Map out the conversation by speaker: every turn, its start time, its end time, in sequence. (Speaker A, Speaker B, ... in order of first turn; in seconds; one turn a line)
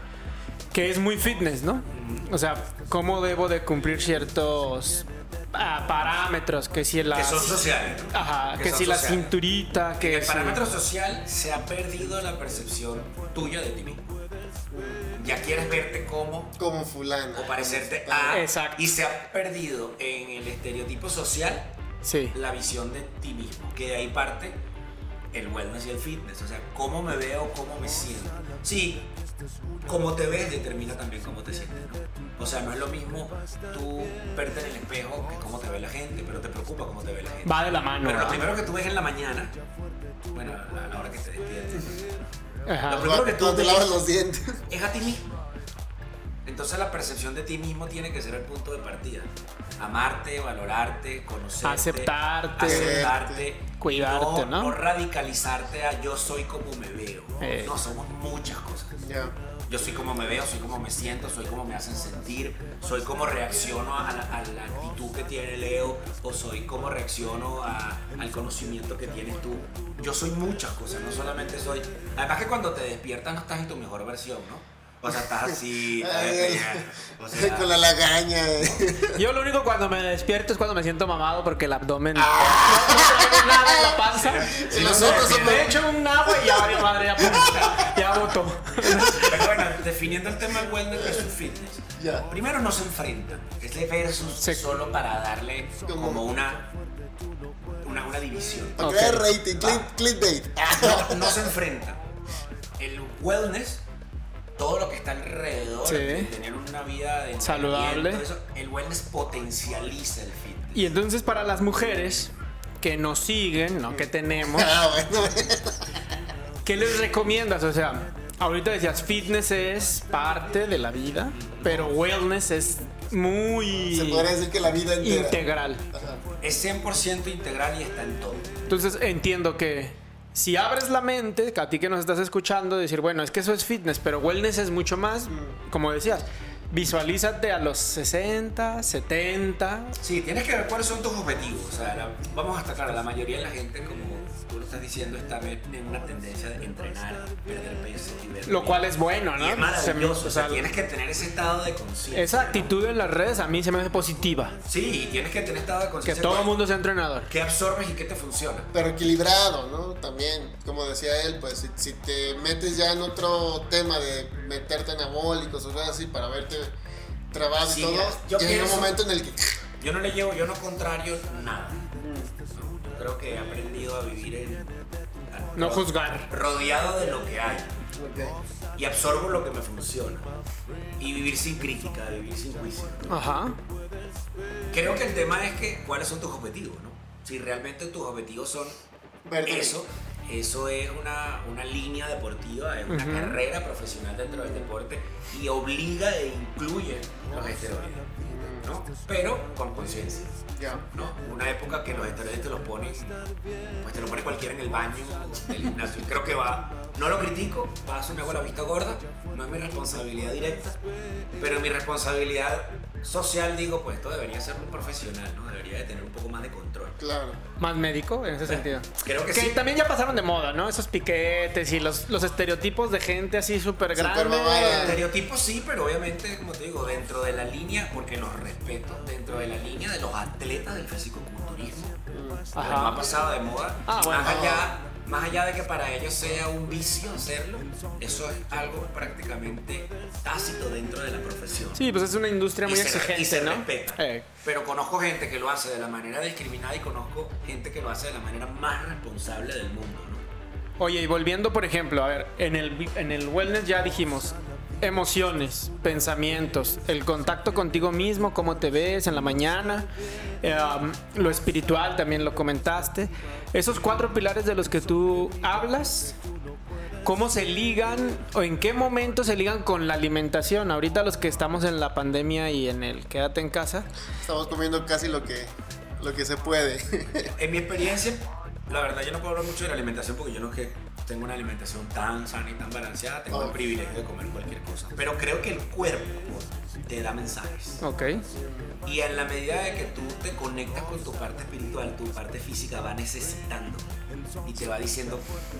Speaker A: 0.7-10.6
Speaker B: 1.9-2.3
Speaker B: 7.1-9.3
Speaker B: 10.0-14.1
Speaker C: 14.7-15.1
Speaker B: 15.2-16.5
Speaker C: 16.6-18.4
Speaker B: 17.3-21.7
Speaker A: 18.3-18.8
Speaker A: 22.0-22.3
Speaker B: 22.3-24.6
Speaker B: 25.3-29.1
Speaker B: 29.9-39.5
Speaker A: 37.4-38.4
Speaker B: 40.3-42.0
Speaker A: 42.6-43.1
Speaker B: 42.9-44.0
Speaker C: 42.9-44.6
Speaker B: 44.7-45.3
Speaker B: 46.4-59.0
Speaker A: 51.6-53.1
Speaker C: 52.6-53.4
Speaker A: 53.8-54.8
Speaker A: 57.4-57.8
Speaker C: 59.0-59.4
Speaker B: 59.7-77.7
Speaker C: 76.0-79.2
Speaker B: 78.6-78.8
Speaker A: 79.1-89.5
Speaker C: 82.2-87.8
Speaker B: 84.2-85.8
Speaker C: 88.8-89.2
Speaker B: 89.1-96.7
Speaker C: 92.0-92.3
Speaker C: 95.8-96.2
Speaker B: 97.8-98.9
Speaker C: 98.8-101.5
Speaker A: 98.8-99.3
Speaker B: 99.5-99.9
Speaker B: 100.7-102.0
Speaker B: 102.8-103.8
Speaker B: 104.6-110.9
Speaker A: 105.8-106.3
Speaker A: 107.4-108.2
Speaker A: 110.7-114.7
Speaker C: 113.9-115.9
Speaker A: 116.6-124.3
Speaker B: 121.3-121.9
Speaker C: 123.9-125.4
Speaker A: 125.0-125.8
Speaker C: 125.9-126.2
Speaker B: 126.4-128.6
Speaker A: 128.7-139.9
Speaker C: 135.3-135.6
Speaker B: 140.0-152.7
Speaker A: 148.4-150.7
Speaker A: 152.1-154.6
Speaker B: 154.7-156.6
Speaker A: 156.0-157.3
Speaker B: 157.3-158.7
Speaker C: 158.7-166.7
Speaker C: 167.3-169.6
Speaker B: 167.6-169.0
Speaker B: 169.8-171.8
Speaker C: 172.0-172.3
Speaker B: 172.5-177.8
Speaker A: 175.6-176.3
Speaker C: 177.9-178.4
Speaker B: 178.8-180.3
Speaker B: 181.0-183.2
Speaker A: 183.1-183.6
Speaker B: 184.7-188.8
Speaker C: 189.2-189.8
Speaker B: 189.4-198.1
Speaker A: 192.9-193.4
Speaker C: 198.2-198.7
Speaker B: 198.6-200.3
Speaker C: 200.5-200.8
Speaker B: 200.9-203.2
Speaker B: 203.8-210.8
Speaker B: 211.4-217.0
Speaker C: 217.0-217.4
Speaker A: 217.6-225.0
Speaker B: 218.5-219.6
Speaker C: 223.9-225.0
Speaker B: 224.6-232.0
Speaker C: 232.1-232.5
Speaker A: 232.5-233.0
Speaker B: 232.6-241.9
Speaker A: 233.9-234.4
Speaker C: 234.2-234.7
Speaker A: 241.8-244.3
Speaker B: 242.7-250.2
Speaker A: 250.8-259.9
Speaker A: 260.4-266.2
Speaker A: 267.0-273.9
Speaker C: 274.2-277.3
Speaker B: 277.4-287.8
Speaker C: 283.3-283.6
Speaker A: 287.8-288.2
Speaker C: 288.3-288.8
Speaker B: 288.8-293.9
Speaker B: 294.4-295.3